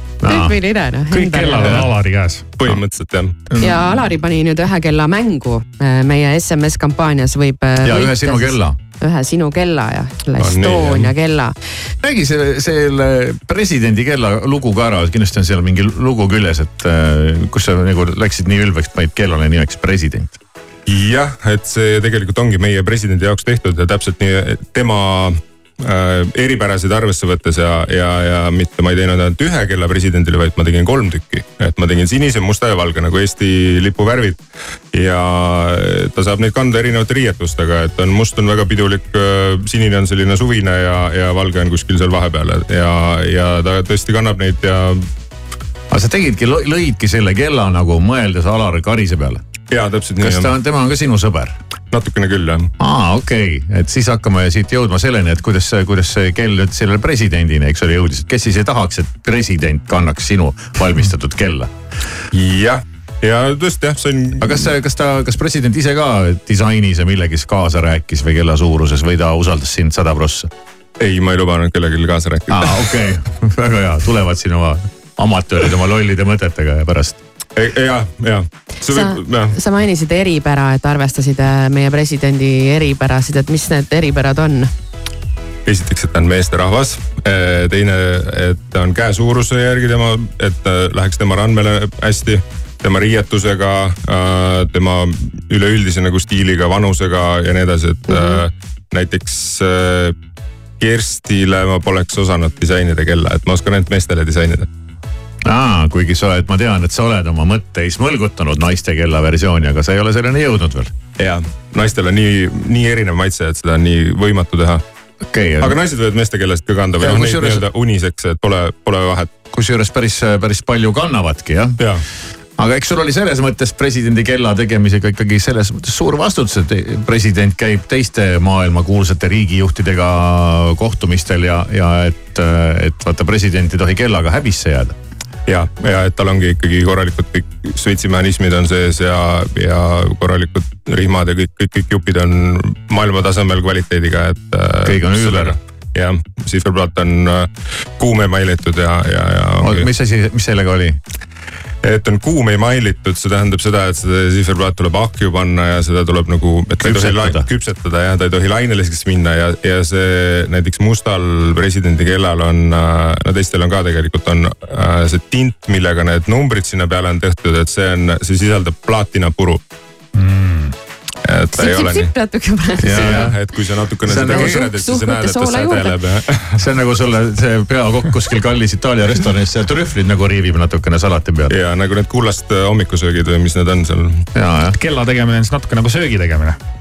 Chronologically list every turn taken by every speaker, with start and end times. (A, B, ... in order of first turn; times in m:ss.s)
0:00.2-0:00.6 A
0:00.3-0:01.9 B
0:01.1-0:02.6 C
0:02.6-0:03.4 D
0:03.5-0:03.9 A
0:03.6-0:11.5 B
0:07.8-0:08.8 A
0:10.4-0:11.1 D
0:12.0-0:20.4 A
0:20.9-0:34.4 D
0:34.9-0:45.1 D
0:45.9-0:49.4 A
0:49.7-0:50.5 D
0:50.2-0:51.6 A
0:51.9-0:52.7 D
0:52.8-1:01.7 A
1:02.3-1:04.7 D
1:04.4-1:10.5 A
1:11.0-1:13.0 D
1:12.5-1:17.2 A
1:17.6-1:19.5 D
1:18.9-1:24.7 B
1:25.6-1:40.2 D
1:38.1-1:38.4 B
1:40.8-1:44.7 D
1:45.4-1:50.9 A
1:51.2-1:54.8 D
1:55.2-1:55.8 A
1:55.6-1:59.3 D
1:57.0-1:57.6 A
1:59.5-2:01.8 A
2:02.6-2:14.9 A
2:15.5-2:29.9 D
2:24.8-2:25.6 A
2:29.6-2:31.0 A
2:31.8-2:49.6 D
2:36.8-2:37.5 A
2:51.2-2:52.1 D
2:51.6-2:53.3 B
2:52.8-2:56.6 D
2:52.8-2:53.4 A
2:54.0-2:54.8 A
2:54.1-2:56.0 B
2:56.6-3:01.6 A
3:01.5-3:04.2 D
3:04.4-3:04.8 A
3:04.8-3:06.6 C